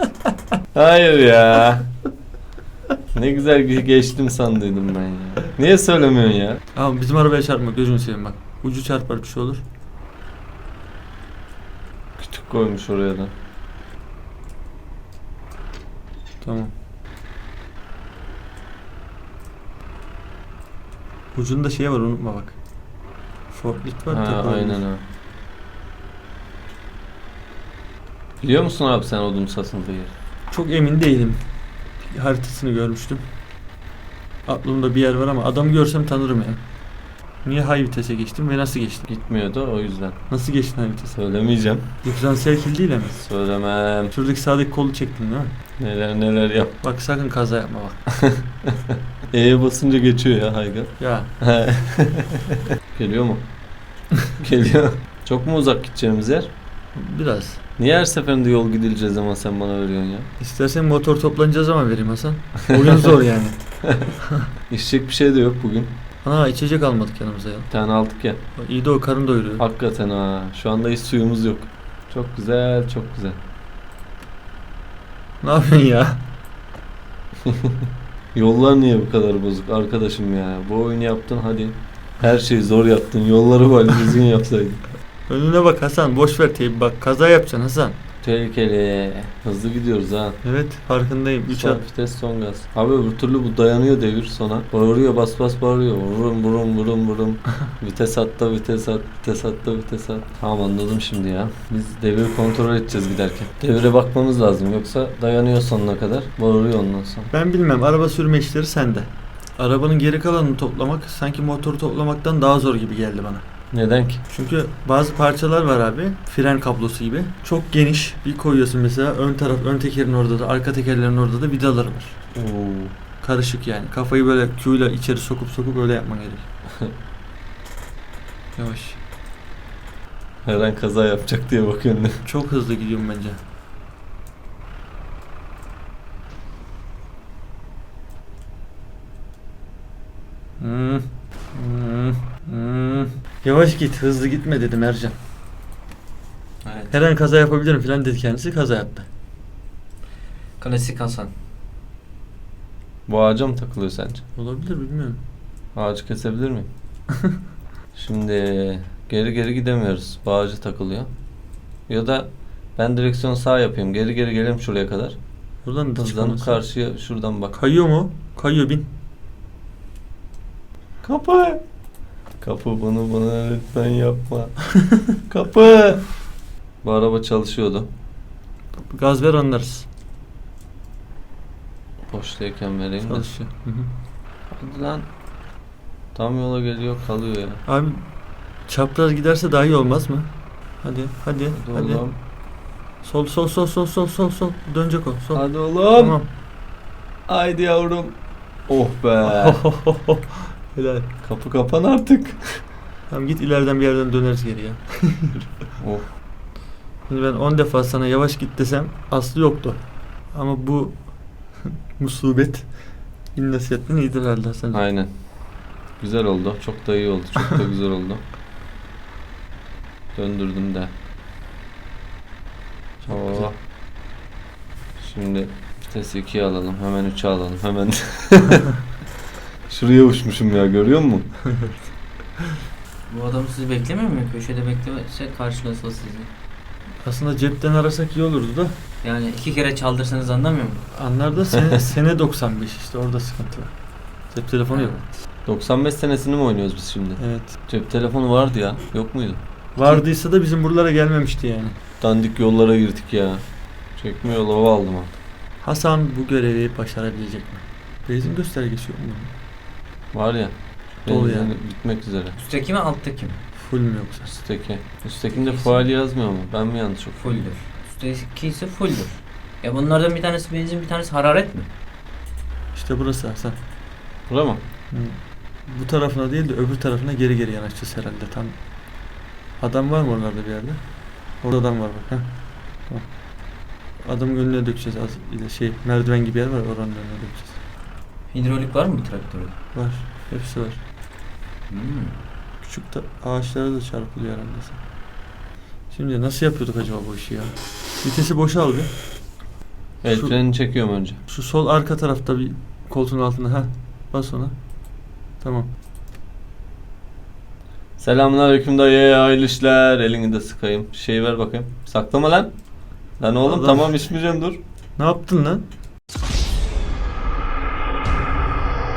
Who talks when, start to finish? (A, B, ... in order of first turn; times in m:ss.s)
0:00.7-0:01.9 A
0:03.1-0:06.6 A
0:06.8-0:09.6 B
0:12.2-0:13.3 A
0:16.4-0:16.7 B
0:21.4-0:22.6 B
0:23.5-0:24.8 B
0:24.1-0:25.0 A
0:28.4-0:30.1 A
0:30.5-0:31.4 B
0:32.0-0:33.2 B
0:34.5-0:36.6 B
0:37.4-0:39.1 B
0:39.1-0:40.2 A
0:40.3-0:41.2 B
0:41.2-0:41.9 A
0:42.0-0:43.2 B
0:43.2-0:44.1 A
0:44.1-0:45.5 B
0:45.8-0:46.8 A
0:46.8-0:48.0 B
0:48.1-0:53.4 A
0:51.0-0:51.3 B
0:54.4-0:56.5 A
0:57.0-0:57.6 B
0:57.8-1:00.3 A
1:00.4-1:03.6 B
1:04.7-1:06.0 A
1:06.2-1:07.7 B
1:07.7-1:08.4 A
1:08.6-1:09.6 B
1:09.6-1:13.4 A
1:15.4-1:16.2 B
1:17.4-1:24.8 A
1:25.3-1:28.0 B
1:28.2-1:30.4 A
1:30.4-1:31.8 B
1:31.5-1:47.3 A
1:47.3-1:53.4 B
1:53.7-1:54.2 A
1:54.3-2:02.2 B
2:02.4-2:02.9 A
2:03.2-2:06.5 B
2:08.6-2:09.0 B
2:10.4-2:12.2 A
2:12.2-2:13.4 B
2:20.6-2:25.2 B
2:26.6-2:26.9 C
2:26.9-2:29.1 B
2:30.6-2:31.3 C
2:33.1-2:34.2 A
2:34.4-2:35.2 B
2:35.8-2:36.7 A
2:37.9-2:41.1 A
2:41.9-2:45.2 A
2:45.6-2:46.6 B
2:46.0-2:47.6 A
2:47.5-2:48.9 B
2:51.0-2:51.6 A
2:52.4-2:54.6 A
2:55.3-2:56.1 A
2:56.8-2:57.9 A
2:58.9-2:59.9 B
3:02.1-3:03.3 A
3:03.0-3:03.9 B
3:04.5-3:05.0 A
3:06.1-3:07.6 A
3:07.7-3:08.0 B
3:08.7-3:10.3 B
3:10.8-3:12.0 B
3:11.5-3:12.2 A
3:13.0-3:16.3 B
3:15.3-3:16.2 A
3:17.3-3:18.2 A
3:18.7-3:19.6 A
3:19.2-3:21.1 B
3:21.2-3:22.6 A
3:23.1-3:25.5 B
3:25.8-3:26.0 A
3:27.1-3:29.8 B
3:30.3-3:31.0 B
3:32.0-3:32.7 B
3:33.4-3:34.8 B
3:34.7-3:35.1 A
3:36.0-3:38.2 A
3:40.2-3:40.9 A
3:43.1-3:43.6 A
3:45.0-3:48.7 A
3:49.7-3:51.3 A
3:53.1-3:56.3 C
3:57.0-3:58.8 B
3:59.0-4:00.8 C
4:00.9-4:03.7 B
4:01.5-4:01.8 A
4:04.3-4:05.0 B
4:04.7-4:05.0 C
4:05.5-4:09.4 A
4:07.2-4:07.5 B
4:09.8-4:11.8 B
4:12.0-4:13.4 A
4:14.0-4:15.2 A
4:15.6-4:19.3 B
4:20.1-4:20.5 A
4:21.0-4:22.4 A
4:21.1-4:21.6 B
4:22.4-4:23.4 C
4:23.6-4:24.3 B
4:24.3-4:27.4 A
4:25.3-4:25.8 C
4:27.2-4:31.7 C
4:32.7-4:33.6 B
4:34.3-4:34.6 A
4:34.9-4:38.6 B
4:39.6-4:40.8 B
4:41.4-4:42.3 B
4:44.0-4:47.6 B
4:48.3-4:49.6 C
4:49.8-4:50.8 B
4:51.7-4:52.2 C
4:52.6-4:54.8 B
4:55.9-4:58.9 B
5:00.0-5:01.2 A
5:01.3-5:04.5 B
5:05.4-5:05.7 B
5:08.0-5:12.5 A
5:13.2-5:14.6 A
5:13.5-5:13.9 B
5:15.0-5:15.6 B